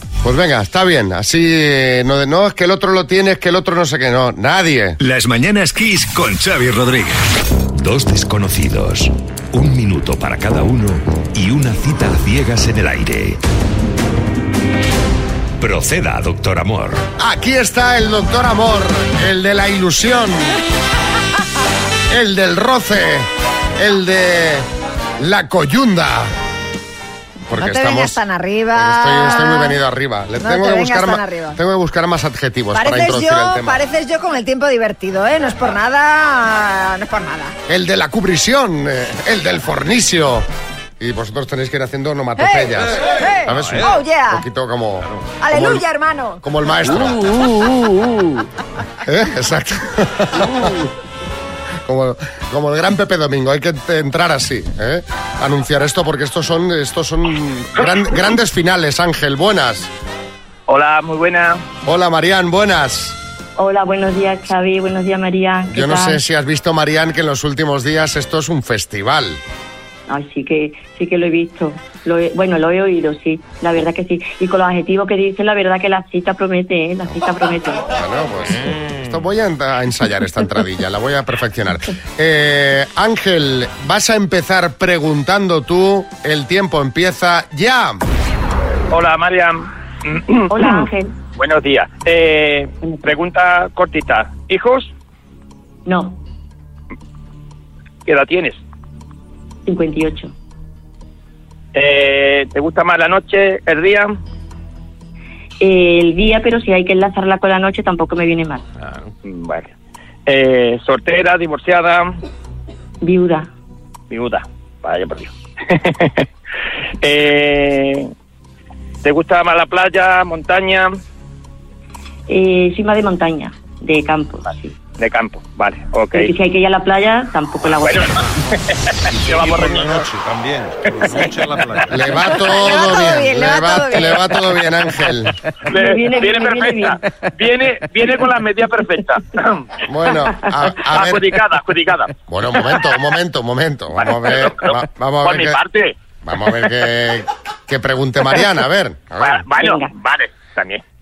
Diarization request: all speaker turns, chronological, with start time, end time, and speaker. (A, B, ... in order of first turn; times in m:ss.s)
0:00.2-0:05.0 A
0:05.1-0:07.1 B
0:07.7-0:13.4 B
0:15.6-0:17.1 B
0:17.2-0:20.6 A
0:22.1-0:23.3 A
0:23.8-0:24.7 A
0:25.2-0:26.3 A
0:27.5-0:28.2 A
0:27.6-0:29.8 C
0:28.7-0:33.8 A
0:30.4-0:31.6 C
0:32.7-0:37.5 C
0:37.7-0:40.4 A
0:41.0-0:45.8 A
0:42.4-0:44.4 C
0:43.6-0:43.9 D
0:45.0-0:45.3 D
0:45.4-0:46.4 C
0:46.4-0:47.4 A
0:49.0-0:50.7 A
0:51.8-0:59.9 A
1:00.7-1:01.6 E
1:01.8-1:03.1 A
1:03.6-1:06.2 F
1:05.7-1:09.4 A
1:10.1-1:17.9 F
1:18.0-1:28.0 A
1:28.9-1:34.9 E
1:30.5-1:31.1 F
1:32.8-1:33.1 F
1:35.8-1:36.2 F
1:38.0-1:38.6 E
1:39.6-1:40.3 F
1:41.7-1:44.1 E
1:45.6-1:48.6 F
1:49.2-1:49.7 E
1:50.2-1:52.1 E
1:53.0-1:53.5 F
1:54.1-1:56.2 E
1:57.0-1:58.1 E
1:59.0-2:00.9 E
2:02.3-2:04.7 F
2:05.0-2:06.3 E
2:06.1-2:08.1 F
2:07.8-2:08.2 E
2:09.1-2:10.1 E
2:09.1-2:12.5 D
2:11.9-2:15.3 A
2:12.4-2:14.4 C
2:15.7-2:19.7 E
2:15.7-2:17.0 F
2:19.9-2:21.3 A
2:20.8-2:22.1 E
2:22.3-2:25.6 A
2:24.0-2:25.9 E
2:26.2-2:29.4 A
2:29.2-2:30.8 E
2:29.6-2:29.9 F